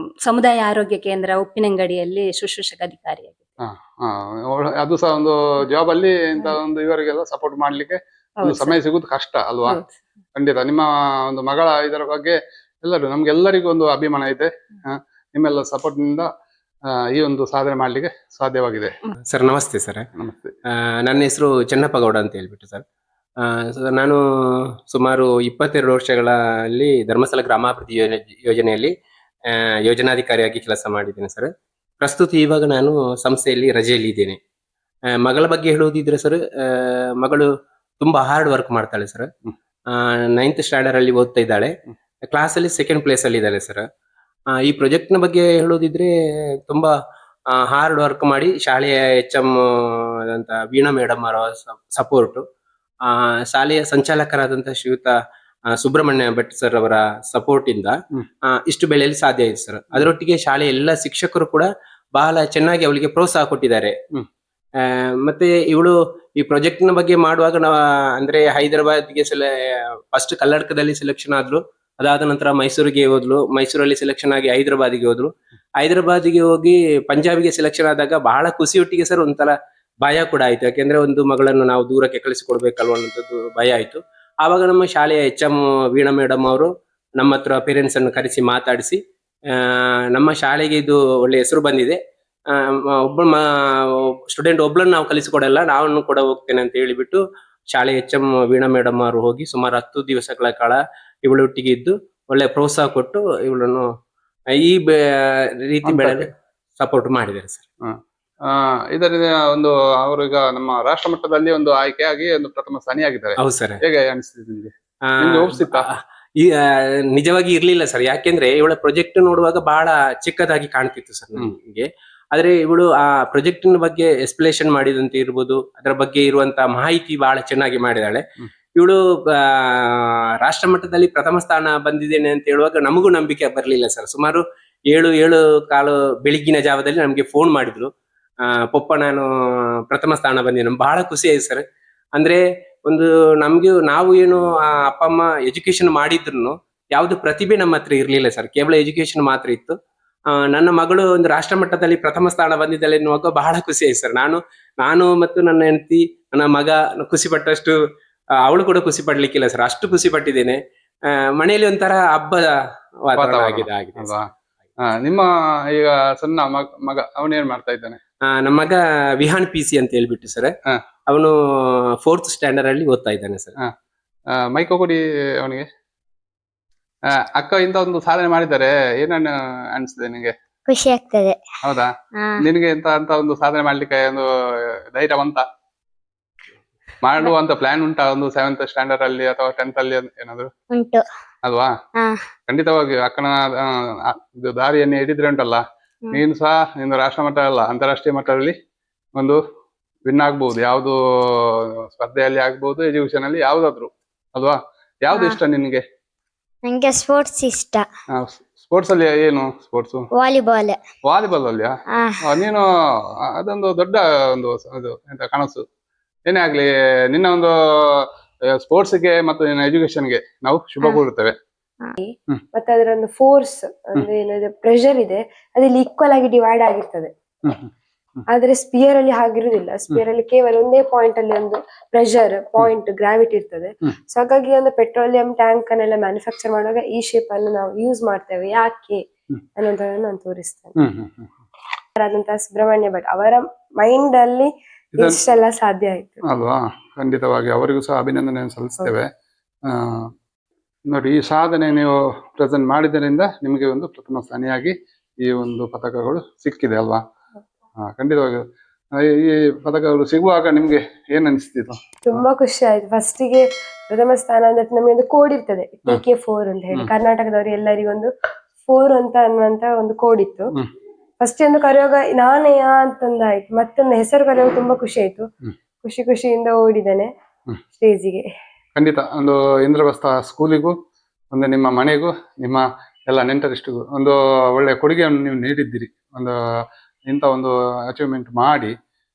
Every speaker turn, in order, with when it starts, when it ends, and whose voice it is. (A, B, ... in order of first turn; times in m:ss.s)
0:00.2-0:03.4 A
0:03.6-0:09.8 B
0:08.4-0:08.8 A
0:09.6-0:09.9 A
0:10.3-0:16.3 B
0:17.1-0:18.9 B
0:19.3-0:20.0 C
0:20.2-0:20.5 B
0:21.0-0:22.8 C
0:23.4-0:24.2 C
0:24.9-0:28.9 C
0:29.5-0:31.5 C
0:32.0-0:34.4 C
0:35.2-0:37.5 C
0:38.0-0:39.3 C
0:39.9-0:41.7 C
0:42.3-0:43.8 C
0:44.6-0:46.1 C
0:47.5-0:52.4 C
0:53.0-0:55.1 C
0:55.8-0:57.9 C
0:58.5-1:03.9 C
1:04.8-1:09.5 C
1:10.1-1:29.0 C
1:29.5-1:32.0 C
1:32.5-1:33.4 C
1:34.3-1:37.2 C
1:37.7-1:43.8 C
1:44.6-1:46.3 C
1:45.8-1:46.3 B
1:46.8-1:47.6 C
1:47.8-1:55.9 B
1:53.4-1:53.8 C
1:55.1-2:08.2 C
2:08.8-2:17.9 C
2:18.4-2:19.2 C
2:19.9-2:21.6 C
2:22.2-2:29.8 C
2:30.4-2:37.8 C
2:38.4-2:40.6 C
2:41.4-2:42.4 C
2:43.1-2:44.1 C
2:43.2-2:44.3 B
2:44.8-2:48.0 B
2:48.4-2:50.5 C
2:52.0-2:53.5 C
2:54.3-2:55.7 B
2:57.1-3:00.3 B
3:00.7-3:01.4 D
3:01.6-3:04.3 B
3:02.1-3:02.4 D
3:04.9-3:05.4 B
3:07.0-3:10.5 B
3:10.7-3:11.0 D
3:11.4-3:11.7 B
3:12.5-3:18.5 B
3:20.0-3:25.8 B
3:25.1-3:25.4 D
3:26.6-3:27.8 D
3:28.1-3:30.1 B
3:30.1-3:30.8 D
3:31.0-3:35.6 B
3:31.9-3:32.3 D
3:36.3-3:41.4 B
3:42.0-3:47.1 E
3:48.3-3:59.0 E
3:59.6-4:00.7 E
4:00.8-4:01.3 B
4:02.0-4:06.2 E
4:04.9-4:05.2 B
4:06.3-4:09.1 B
4:09.7-4:10.1 B
4:10.9-4:17.0 B
4:17.8-4:18.4 B
4:18.9-4:22.2 B
4:22.0-4:28.1 E
4:28.6-4:30.5 E
4:31.2-4:35.2 E
4:35.8-4:37.1 E
4:37.8-4:38.2 E
4:38.8-4:40.7 B
4:41.3-4:46.3 B
4:47.1-4:48.7 B